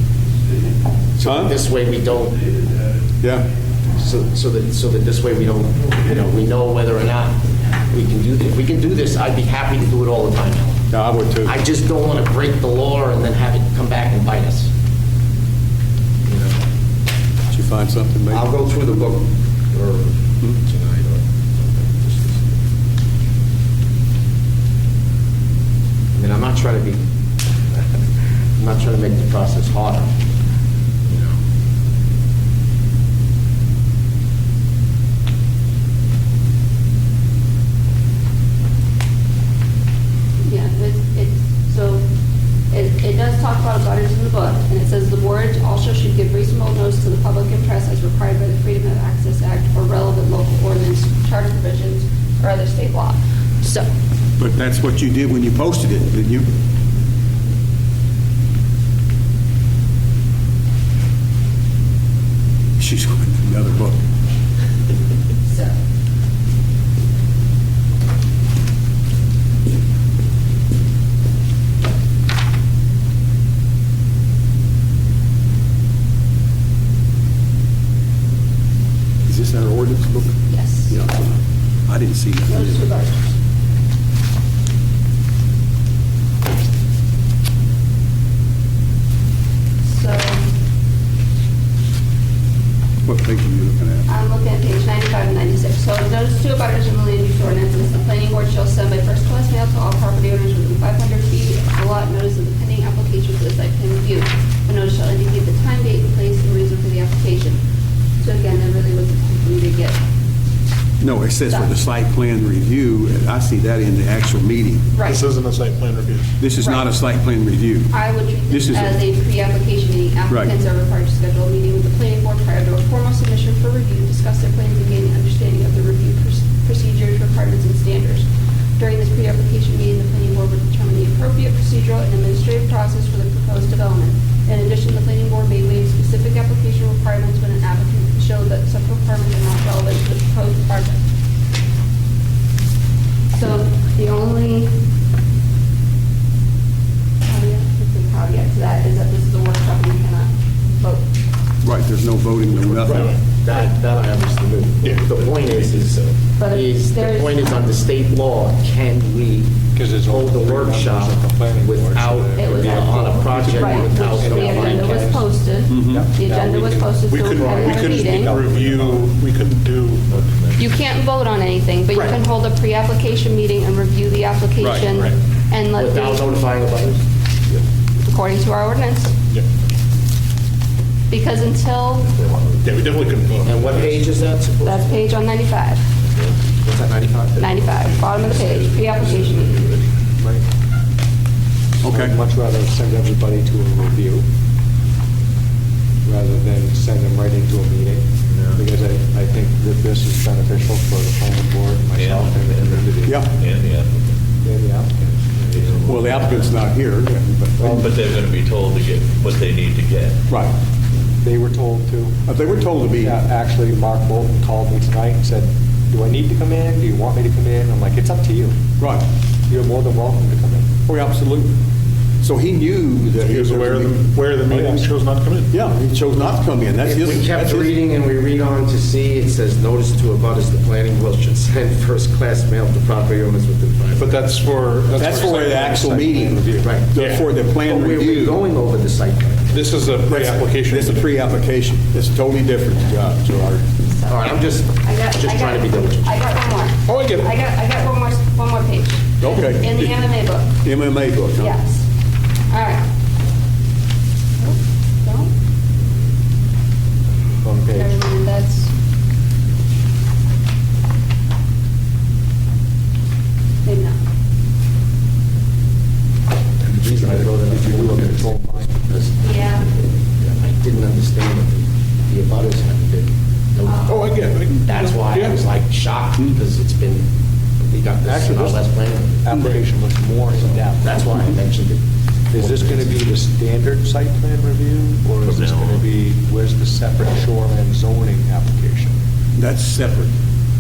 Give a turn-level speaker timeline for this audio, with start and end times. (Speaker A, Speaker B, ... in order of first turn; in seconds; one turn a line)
Speaker A: 1.1-2.7
Speaker B: 1.2-1.6
Speaker B: 3.2-3.5
Speaker A: 4.0-7.4
Speaker A: 7.9-10.8
Speaker B: 10.9-11.5
Speaker A: 11.4-14.7
Speaker A: 16.2-16.6
Speaker B: 17.5-18.5
Speaker A: 18.3-22.6
Speaker A: 26.1-27.0
Speaker A: 28.6-30.2
Speaker A: 31.1-31.4
Speaker C: 40.5-42.0
Speaker C: 42.7-53.9
Speaker B: 54.4-56.5
Speaker B: 62.8-64.0
Speaker B: 79.2-82.9
Speaker C: 80.5-81.0
Speaker C: 82.5-83.3
Speaker C: 89.8-90.4
Speaker B: 93.0-94.1
Speaker C: 94.1-107.6
Speaker C: 108.2-110.0
Speaker B: 111.0-114.9
Speaker C: 114.9-115.2
Speaker D: 115.0-116.3
Speaker B: 116.4-119.0
Speaker C: 116.6-116.9
Speaker C: 117.9-128.3
Speaker C: 128.8-141.0
Speaker C: 143.3-144.7
Speaker C: 147.3-151.1
Speaker B: 151.6-153.1
Speaker D: 152.6-153.1
Speaker A: 152.8-165.2
Speaker D: 154.8-155.7
Speaker C: 156.4-157.4
Speaker E: 159.7-169.1
Speaker C: 162.4-168.3
Speaker B: 165.7-166.1
Speaker D: 167.0-170.1
Speaker F: 170.1-170.9
Speaker C: 170.6-176.3
Speaker B: 174.6-174.9
Speaker A: 175.8-177.0
Speaker C: 178.0-179.1
Speaker C: 181.1-182.1
Speaker F: 182.1-183.5
Speaker D: 182.6-184.0
Speaker A: 183.4-185.0
Speaker C: 184.6-185.8
Speaker F: 186.0-186.4
Speaker A: 186.6-188.0
Speaker C: 187.4-189.6
Speaker F: 187.9-189.9
Speaker B: 191.8-192.2
Speaker E: 191.8-194.3
Speaker E: 196.0-203.3
Speaker F: 198.3-198.6
Speaker F: 201.9-204.2
Speaker B: 203.0-203.3
Speaker E: 204.4-206.1
Speaker F: 205.5-206.6
Speaker B: 205.9-207.9
Speaker E: 207.6-207.9
Speaker F: 207.8-210.2
Speaker E: 211.2-218.6
Speaker B: 212.3-213.2
Speaker B: 218.8-219.1
Speaker E: 219.5-220.7
Speaker B: 220.9-221.5
Speaker B: 222.2-224.0
Speaker D: 223.2-225.5
Speaker E: 224.5-224.9
Speaker B: 225.5-227.8
Speaker A: 226.8-234.2
Speaker D: 234.0-236.1
Speaker B: 235.0-238.4
Speaker A: 236.4-236.9
Speaker D: 236.9-237.3
Speaker A: 237.6-239.6
Speaker D: 239.5-241.1
Speaker B: 240.1-243.7
Speaker C: 243.9-250.5
Speaker A: 244.1-246.2
Speaker D: 246.9-247.4
Speaker B: 249.2-251.6
Speaker C: 251.4-251.8
Speaker C: 252.5-252.8
Speaker C: 254.4-255.3
Speaker E: 257.4-257.9
Speaker C: 257.7-258.7
Speaker C: 263.6-264.0
Speaker A: 266.6-277.1
Speaker E: 266.9-268.7
Speaker C: 269.2-269.7
Speaker C: 273.7-274.0
Speaker D: 273.9-275.4
Speaker A: 277.6-279.6
Speaker E: 278.1-278.7
Speaker E: 279.2-281.0
Speaker A: 280.4-283.1
Speaker E: 282.3-288.9
Speaker F: 285.2-285.9
Speaker B: 289.4-290.1